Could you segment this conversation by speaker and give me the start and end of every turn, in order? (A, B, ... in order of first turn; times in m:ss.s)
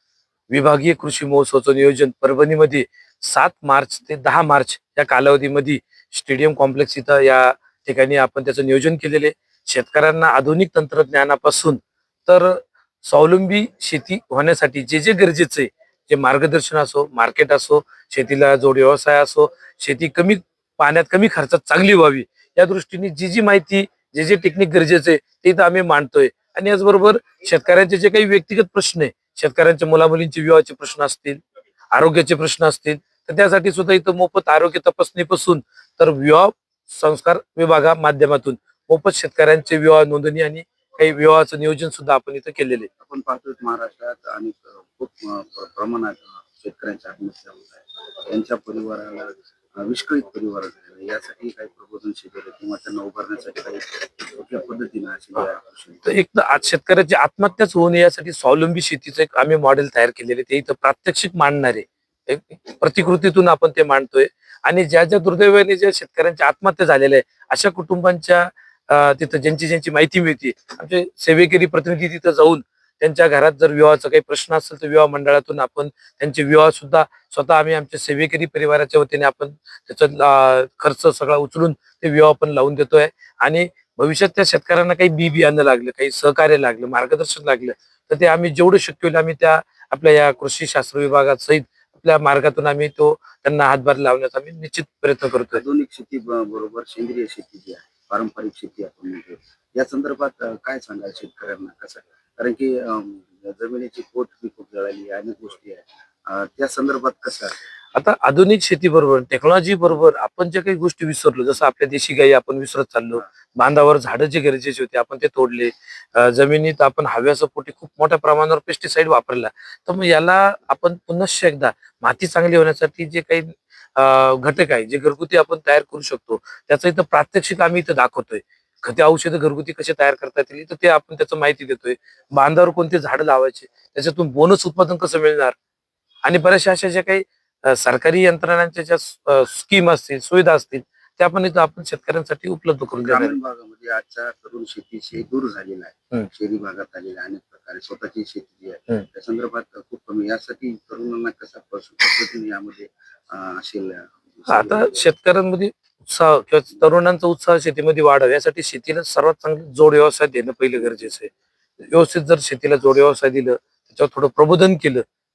0:00.5-0:31.4 A
0:31.9-0:42.9 A
0:43.0-0:56.1 B
0:56.0-1:35.6 A
1:35.5-1:47.6 B
1:47.9-2:15.6 A
2:16.2-2:23.4 A
2:23.0-2:35.1 B
2:34.5-2:41.3 A
2:41.9-2:45.0 A